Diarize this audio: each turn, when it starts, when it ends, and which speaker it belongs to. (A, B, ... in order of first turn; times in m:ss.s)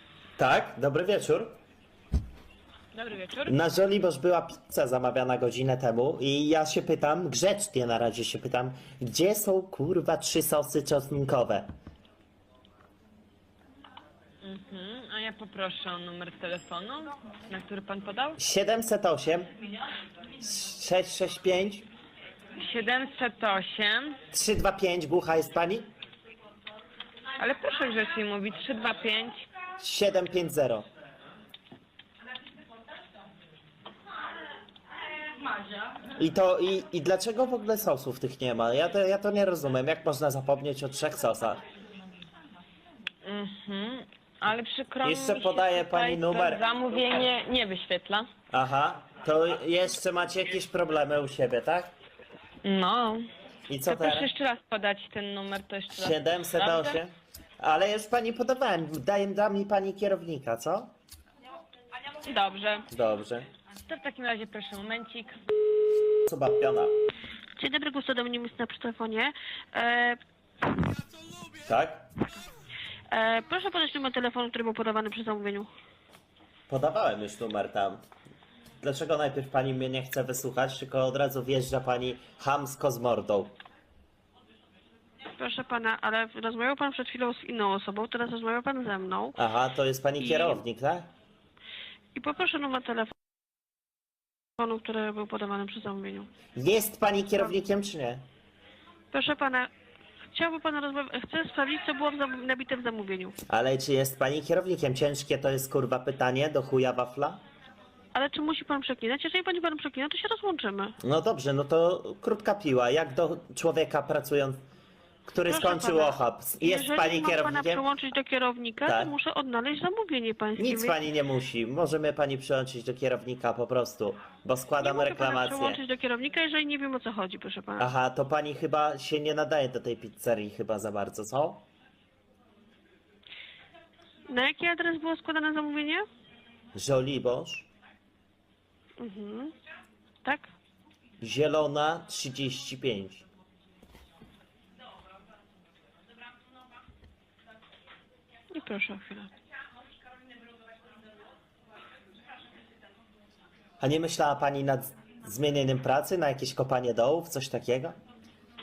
0:00.4-0:01.6 A
0:02.9-0:03.6 B
0:03.4-0:11.7 A
0:14.4-0:18.4 B
0:18.4-0:19.5 A
0:20.4-0:21.8 A
0:22.6-0:24.2 B
0:24.3-0:25.9 A
0:27.4-0:29.4 B
0:29.8-0:30.8 A
0:36.2-0:41.6 A
0:43.2-0:48.3 B
0:45.0-0:46.6 A
0:48.5-0:51.9 A
0:52.6-0:53.3 B
0:53.7-0:54.3 A
0:53.9-0:57.0 B
0:55.9-1:00.9 A
1:02.2-1:02.9 B
1:02.9-1:03.5 A
1:03.8-1:05.3 B
1:06.2-1:06.9 A
1:07.6-1:10.2 C
1:11.6-1:12.0 A
1:13.1-1:15.7 C
1:16.7-1:18.0 A
1:18.8-1:23.5 A
1:25.4-1:29.4 C
1:29.4-1:31.1 A
1:30.2-1:30.6 C
1:32.1-1:33.1 C
1:34.6-1:36.3 C
1:36.6-1:38.2 A
1:39.1-1:39.7 C
1:40.3-1:43.4 C
1:43.5-1:47.4 A
1:48.1-1:51.0 C
1:51.0-1:54.6 A
1:55.2-1:57.8 A
1:55.4-2:01.0 C
1:58.8-1:59.1 A
2:00.6-2:05.8 A
2:04.8-2:07.9 C
2:07.8-2:11.6 A
2:14.3-2:16.0 C
2:16.7-2:17.7 A
2:19.0-2:19.5 C
2:20.2-2:20.5 C
2:21.2-2:23.2 A
2:28.5-2:29.3 C
2:33.8-2:38.0 A